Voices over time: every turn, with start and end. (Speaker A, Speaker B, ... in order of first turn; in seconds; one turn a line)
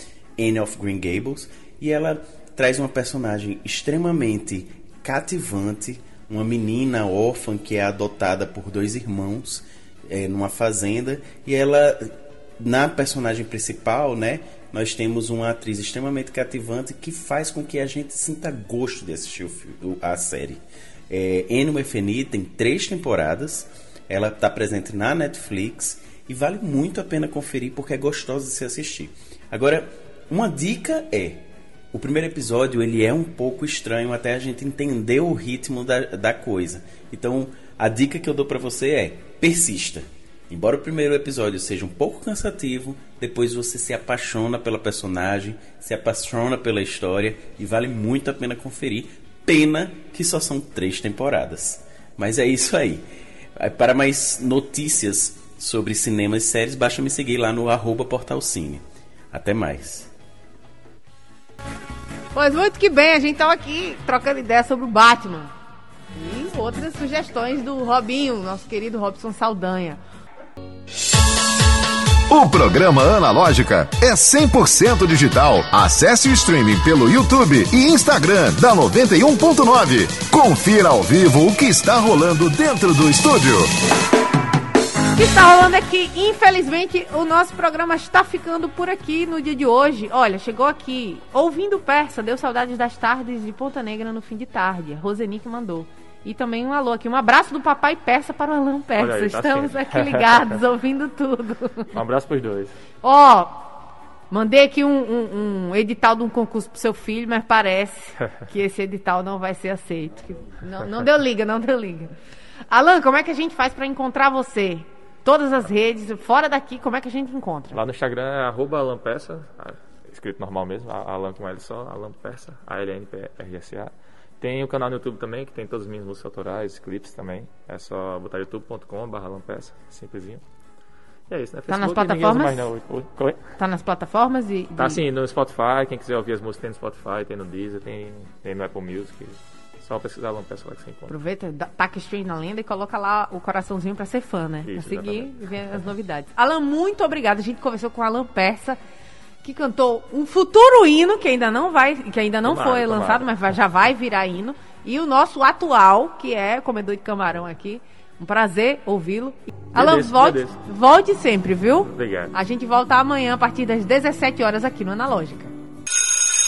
Speaker A: 0.4-60.1
Speaker B: 62.3-65.5
Speaker B: 66.1-70.0
Speaker C: 72.3-83.7
Speaker B: 85.1-102.0
Speaker D: 99.0-100.5
Speaker D: 101.9-102.8
Speaker B: 103.0-103.7
Speaker B: 104.3-112.1
Speaker B: 112.7-117.8
Speaker D: 117.7-130.4
Speaker D: 131.3-133.4
Speaker B: 131.7-132.7
Speaker B: 133.6-135.0
Speaker D: 134.8-141.1
Speaker B: 141.1-148.8
Speaker D: 144.7-145.3
Speaker B: 149.4-165.5
Speaker D: 152.4-153.3
Speaker D: 159.7-160.6
Speaker D: 161.9-162.3